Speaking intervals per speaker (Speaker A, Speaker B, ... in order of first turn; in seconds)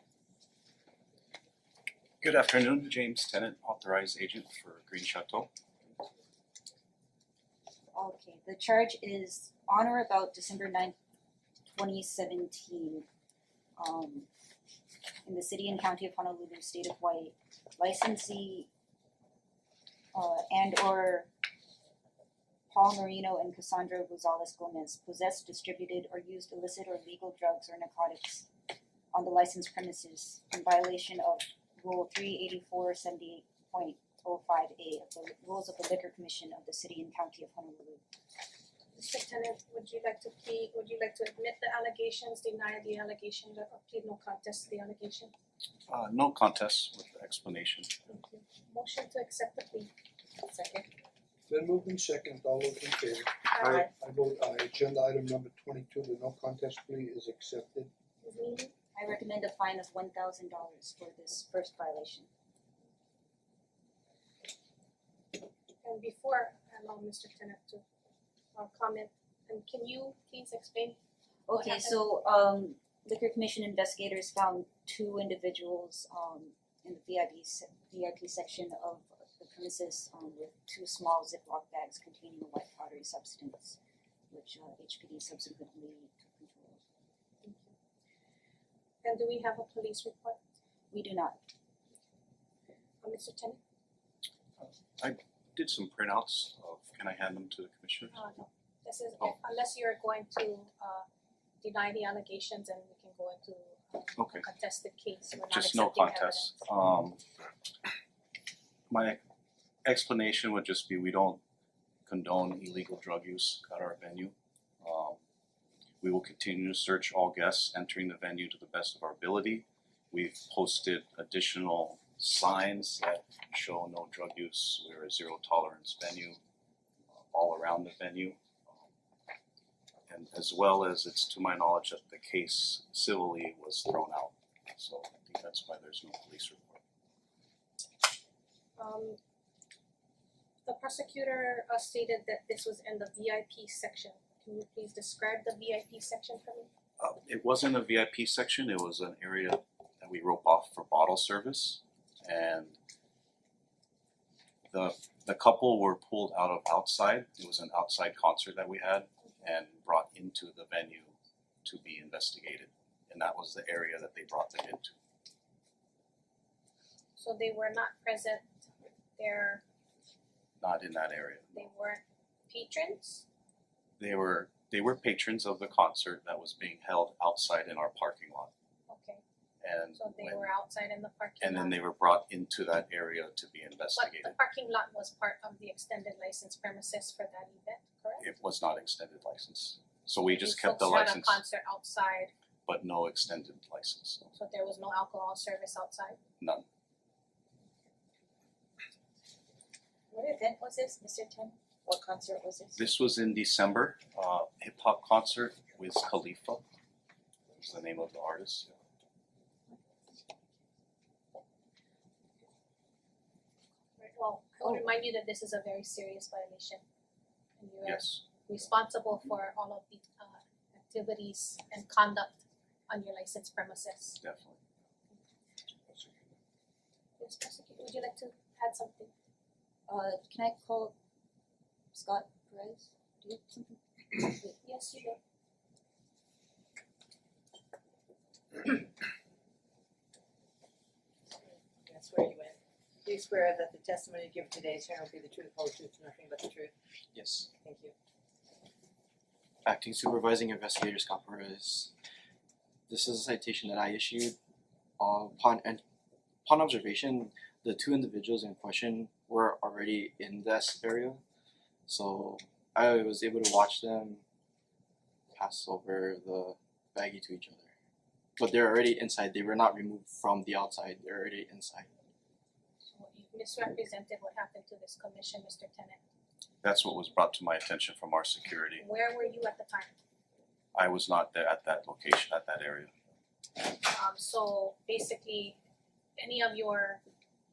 Speaker A: 2.2-5.5, 45.9-48.0, 94.6-98.2, 104.2-104.5, 105.5-107.2, 108.9-109.2, 109.8-111.4, 112.1-115.2, 116.0-126.4, 127.2-128.9, 130.1-136.8, 147.0-152.8, 154.7-164.9, 170.6-171.7, 174.0-178.5, 179.6-180.5, 181.4-184.3, 188.2-191.4, 192.7-194.3, 196.4-196.7, 202.8-206.6, 207.6-208.7, 217.8-218.2, 224.2-224.6, 276.6-278.9, 280.7-282.9
Speaker B: 7.9-10.9, 11.7-13.1, 13.8-14.3, 15.2-18.7, 20.1-21.3, 22.7-28.5, 29.1-38.0, 50.5-50.8, 59.0-62.3, 71.5-83.8, 84.3-86.8, 90.9-91.4, 200.1-202.9, 229.9-230.9, 231.9-234.6
Speaker C: 38.9-45.3, 48.1-49.9, 53.5-53.8, 58.2-58.7, 65.8-67.8, 68.5-71.0, 71.5-72.0, 87.4-87.7, 89.0-90.4, 93.0-93.6, 98.1-101.1, 101.6-106.5, 138.8-139.2, 140.7-146.7, 167.2-168.5, 169.2-169.6, 171.6-173.2, 178.9-179.2, 180.0-181.8, 184.0-188.3, 190.3-192.3, 194.4-196.2, 214.0-216.8, 217.6-224.2, 227.2-229.1, 234.6-235.2, 272.9-276.0, 278.8-279.9, 283.8-285.6, 286.2-287.0
Speaker D: 51.5-57.9
Speaker E: 241.9-246.7, 247.6-247.9
Speaker F: 247.2-247.5, 249.7-251.9, 252.9-254.4, 255.0-255.8, 256.4-261.2, 261.9-264.2, 265.3-267.7, 268.4-271.9